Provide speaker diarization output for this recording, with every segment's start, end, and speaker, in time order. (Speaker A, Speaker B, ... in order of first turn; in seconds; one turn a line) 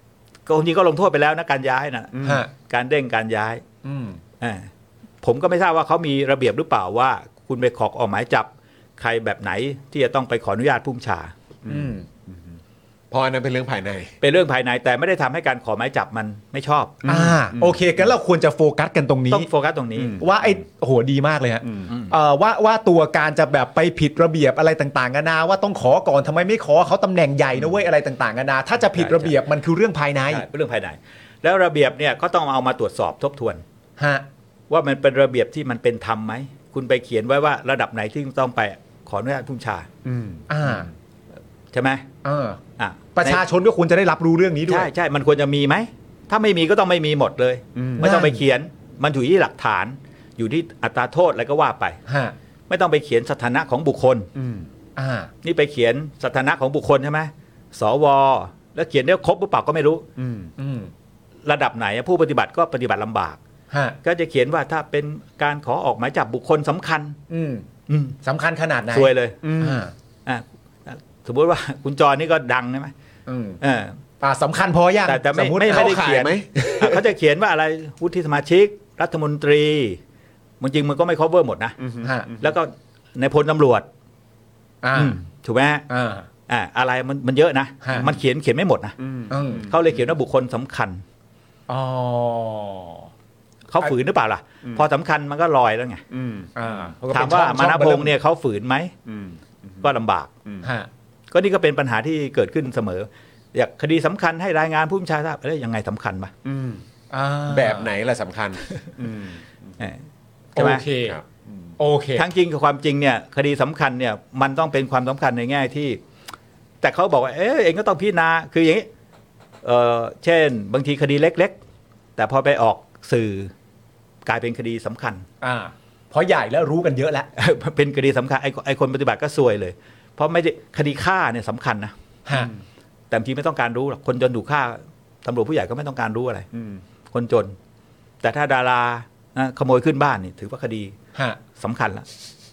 Speaker A: 0.5-3.6
Speaker B: 2.1-2.4
Speaker C: 2.2-2.5
Speaker C: 3.8-4.2
Speaker A: 4.4-4.7
Speaker A: 5.2-11.3
Speaker B: 11.6-12.6
Speaker C: 11.7-12.1
Speaker B: 13.1-14.1
Speaker A: 14.2-17.1
Speaker C: 17.1-19.5
Speaker B: 17.1-17.8
Speaker A: 19.3-20.2
Speaker B: 20.0-20.3
Speaker C: 20.2-30.5
Speaker A: 28.9-29.4
Speaker A: 30.3-33.6
Speaker C: 34.0-34.3
Speaker A: 34.7-39.9
Speaker B: 40.0-40.8
Speaker C: 40.5-40.9
Speaker A: 41.7-42.1
Speaker C: 42.2-42.6
Speaker A: 42.8-43.4
Speaker C: 43.1-44.9
Speaker A: 44.7-52.0
Speaker B: 47.8-48.1
Speaker C: 48.0-48.4
Speaker C: 52.1-52.4
Speaker A: 52.7-54.3
Speaker B: 54.4-54.7
Speaker C: 55.0-55.3
Speaker A: 55.4-60.0
Speaker B: 60.2-60.5
Speaker C: 60.6-60.9
Speaker A: 61.5-63.4
Speaker C: 63.7-64.0
Speaker A: 64.0-67.2
Speaker C: 67.3-67.7
Speaker A: 67.9-68.2
Speaker C: 68.2-69.9
Speaker A: 68.9-69.4
Speaker B: 69.4-69.9
Speaker A: 70.3-72.9
Speaker C: 73.3-73.6
Speaker A: 73.6-74.0
Speaker C: 74.2-76.0
Speaker A: 75.1-80.0
Speaker B: 75.7-77.0
Speaker A: 80.6-81.8
Speaker B: 81.8-82.4
Speaker C: 82.0-82.3
Speaker A: 82.4-83.9
Speaker C: 84.8-85.2
Speaker A: 84.9-85.9
Speaker C: 85.9-86.3
Speaker A: 86.5-89.0
Speaker C: 87.8-88.2
Speaker B: 89.0-89.8
Speaker C: 89.3-89.6
Speaker A: 89.7-91.0
Speaker C: 91.7-93.1
Speaker A: 93.7-96.0
Speaker B: 96.1-96.5
Speaker C: 96.6-98.2
Speaker A: 97.1-98.9
Speaker B: 99.1-99.9
Speaker A: 99.8-100.3
Speaker B: 100.5-100.7
Speaker C: 100.6-100.9
Speaker A: 101.3-106.3
Speaker B: 106.5-106.8
Speaker C: 107.1-107.9
Speaker B: 107.5-109.8
Speaker A: 110.5-110.8
Speaker C: 110.5-111.2
Speaker B: 111.0-111.7
Speaker C: 111.8-112.3
Speaker A: 112.2-116.0
Speaker A: 116.8-118.9
Speaker A: 119.6-121.5
Speaker A: 122.2-123.5
Speaker A: 124.3-125.2
Speaker C: 125.4-127.3
Speaker A: 127.4-131.9
Speaker A: 133.1-136.5
Speaker B: 136.5-136.8
Speaker A: 137.1-137.6
Speaker A: 138.2-141.0
Speaker C: 141.1-141.4
Speaker A: 141.6-142.1